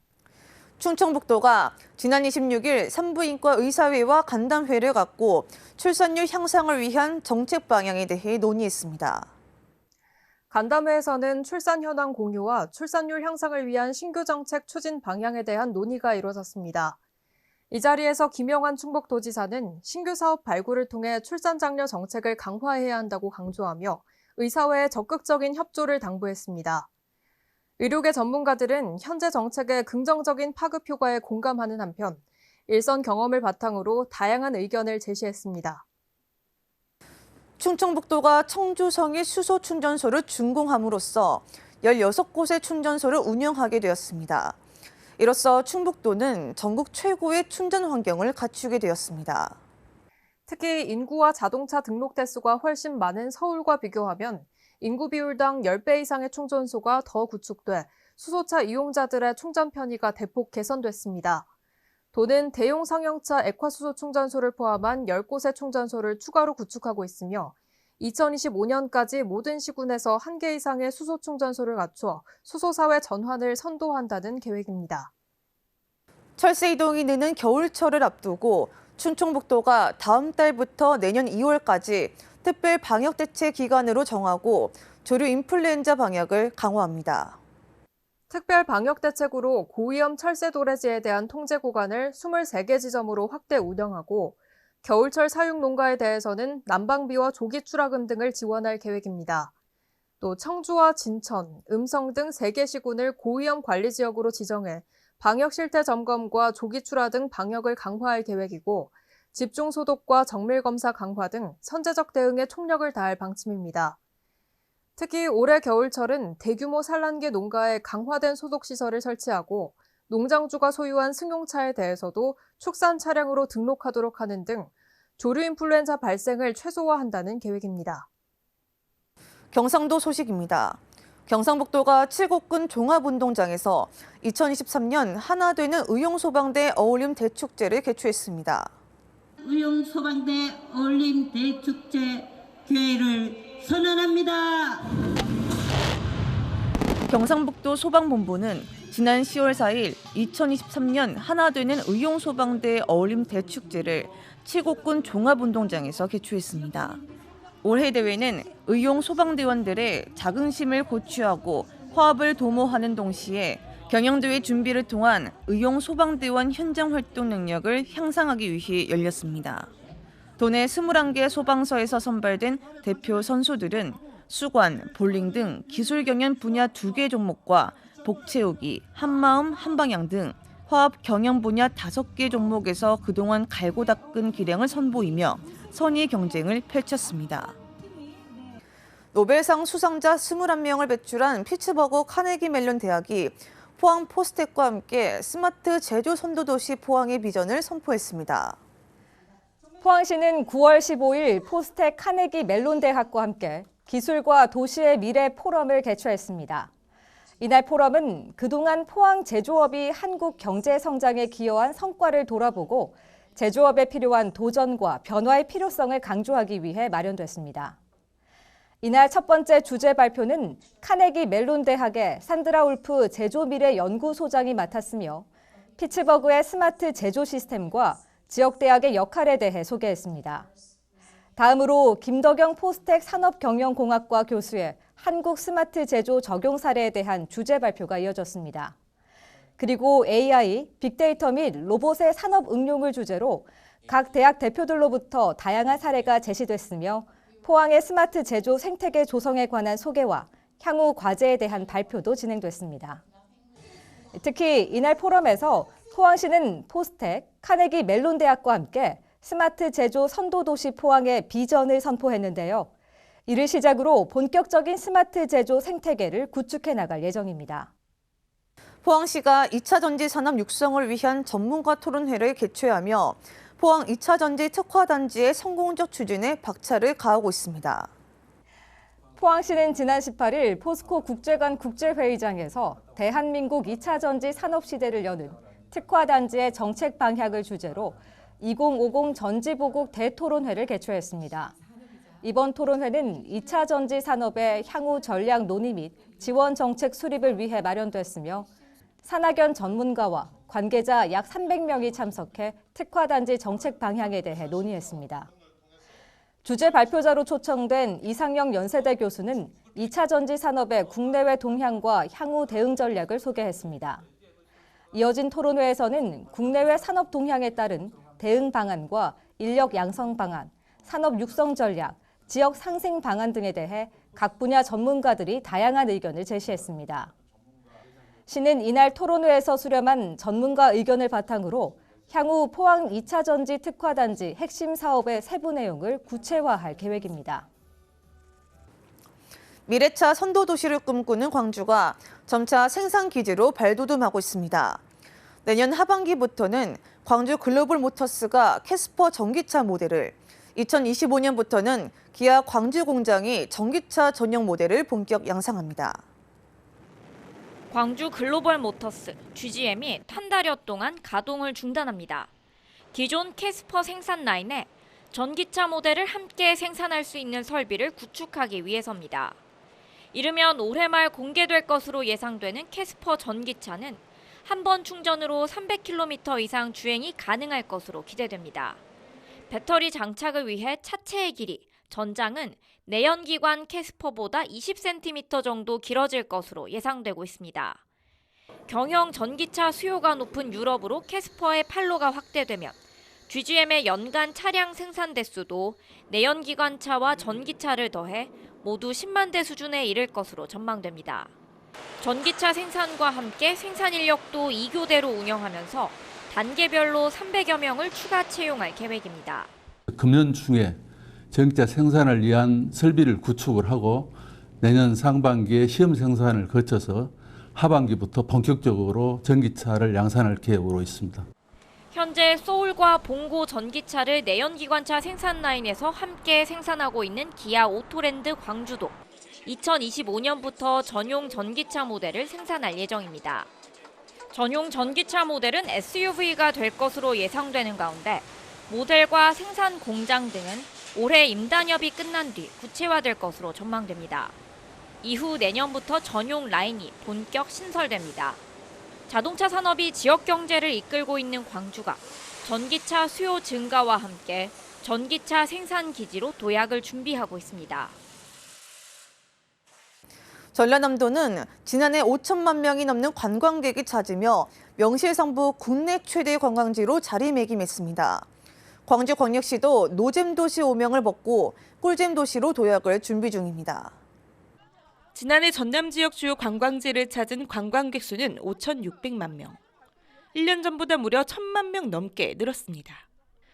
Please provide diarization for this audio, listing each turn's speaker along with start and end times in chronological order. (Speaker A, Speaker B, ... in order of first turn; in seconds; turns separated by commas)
Speaker A: 0.8-9.3, Speaker B: 10.5-17.0, Speaker B: 17.7-26.9, Speaker B: 27.8-35.8, Speaker A: 37.6-44.6, Speaker A: 45.2-49.6, Speaker B: 50.5-61.5, Speaker B: 62.1-75.1, Speaker A: 76.4-87.4, Speaker B: 88.3-99.5, Speaker B: 100.2-114.0, Speaker B: 115.0-128.1, Speaker A: 129.5-138.7, Speaker C: 139.4-144.9, Speaker A: 147.1-157.0, Speaker A: 157.6-169.7, Speaker A: 170.4-187.6, Speaker A: 189.1-198.6, Speaker D: 199.8-206.7, Speaker D: 207.4-217.8, Speaker D: 218.8-225.2, Speaker D: 225.8-230.5, Speaker D: 231.3-238.7, Speaker D: 239.6-253.0, Speaker D: 254.1-262.7, Speaker D: 263.3-267.7, Speaker A: 268.8-277.9, Speaker D: 279.2-291.5, Speaker D: 292.2-298.5, Speaker D: 299.0-305.3, Speaker D: 306.4-314.0, Speaker D: 314.9-327.1, Speaker D: 328.3-337.4, Speaker A: 339.7-344.8, Speaker A: 345.4-356.0, Speaker E: 357.7-362.3, Speaker E: 362.9-369.4, Speaker E: 370.1-378.8, Speaker E: 379.5-387.8, Speaker E: 388.7-392.8, Speaker E: 393.3-401.3, Speaker E: 402.0-409.5, Speaker F: 409.9-421.3, Speaker E: 421.9-433.5, Speaker E: 434.3-444.3, Speaker E: 445.0-448.4, Speaker E: 449.1-458.0, Speaker A: 460.5-468.3, Speaker A: 468.9-473.9, Speaker G: 475.1-479.6, Speaker G: 480.3-483.1